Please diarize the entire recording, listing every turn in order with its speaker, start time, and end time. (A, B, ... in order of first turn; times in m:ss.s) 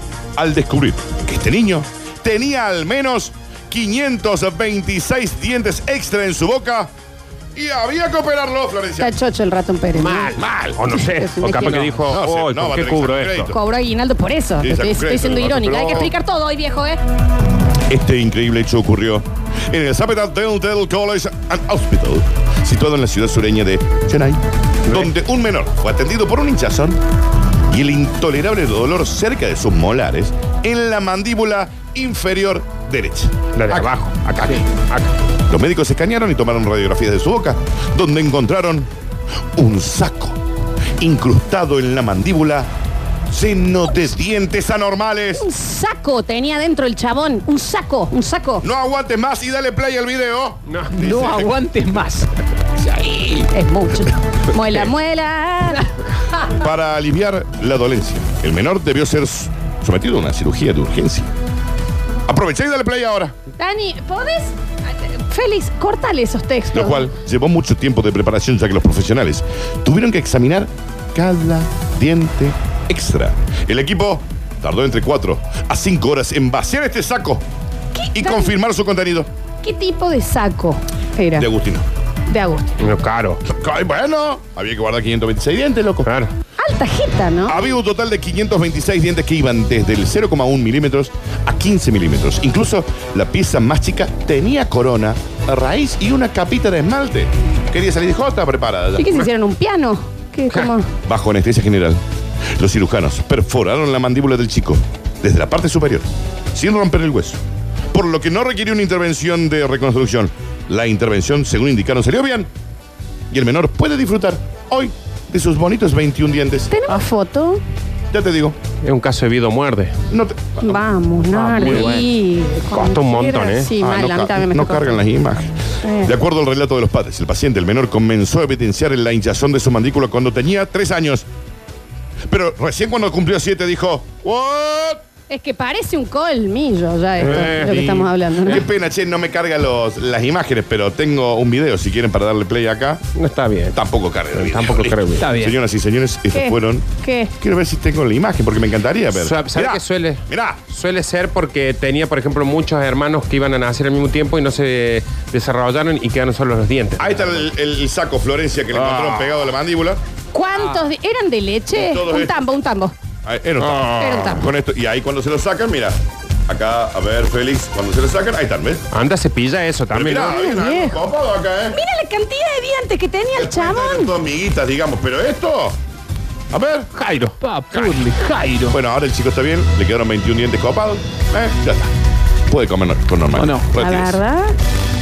0:00.4-0:06.9 A
0:07.5-0:09.2 A
0:09.0-0:10.4 B
0:09.9-0:13.5 C
0:10.4-0:10.8 A
0:10.9-0:12.0 B
0:12.0-0:13.6 A
0:13.5-0:17.0 B
0:14.6-0:16.1 A
0:17.9-0:27.0 A
0:24.9-0:25.1 C
0:27.7-0:33.9 A
0:33.5-0:35.1 C
0:35.5-0:38.9 A
0:39.6-0:40.4 A
0:41.0-0:42.7 A
0:43.3-0:45.5 A
0:45.4-0:48.6 B
0:48.6-0:51.6 A
0:50.7-0:51.0 C
0:50.9-0:52.3 D
0:52.8-0:53.5 A
0:53.5-0:56.6 B
0:56.4-1:01.3 A
1:02.2-1:03.3 A
1:03.6-1:07.1 B
1:06.7-1:17.4 A
1:17.9-1:18.5 B
1:18.1-1:19.3 A
1:19.6-1:21.5 B
1:21.4-1:21.9 A
1:22.3-1:22.8 B
1:22.8-1:23.4 C
1:23.4-1:26.1 A
1:26.0-1:26.3 C
1:26.6-1:27.6 B
1:27.5-1:39.1 A
1:39.0-1:40.9 B
1:41.0-1:42.0 A
1:42.6-1:47.4 A
1:47.9-1:52.5 A
1:53.3-1:56.7 A
1:56.7-1:57.6 B
1:58.1-1:58.6 A
1:58.8-2:00.0 C
2:00.1-2:00.8 A
2:00.6-2:05.1 B
2:01.3-2:02.1 C
2:02.7-2:03.7 C
2:03.8-2:11.2 A
2:05.8-2:06.1 B
2:12.3-2:15.0 A
2:15.3-2:18.6 B
2:17.2-2:18.6 C
2:18.4-2:23.0 A
2:23.1-2:23.8 C
2:23.7-2:26.9 A
2:24.3-2:25.3 C
2:25.2-2:25.6 D
2:26.3-2:27.3 B
2:27.4-2:30.6 A
2:29.1-2:37.4 C
2:37.0-2:40.0 A
2:38.7-2:39.4 C
2:40.3-2:42.9 B
2:41.8-2:42.5 A
2:43.2-2:48.8 A
2:43.6-2:44.3 C
2:44.0-2:44.5 B
2:48.9-2:50.3 C
2:49.9-2:51.8 A
2:50.2-2:51.0 B
2:51.7-2:54.1 B
2:53.3-2:55.8 A
2:56.5-2:56.9 A
2:56.9-2:58.1 C
2:57.4-2:58.8 D
2:58.7-3:01.9 A
3:02.5-3:04.2 A
3:03.4-3:03.7 D
3:03.8-3:04.6 B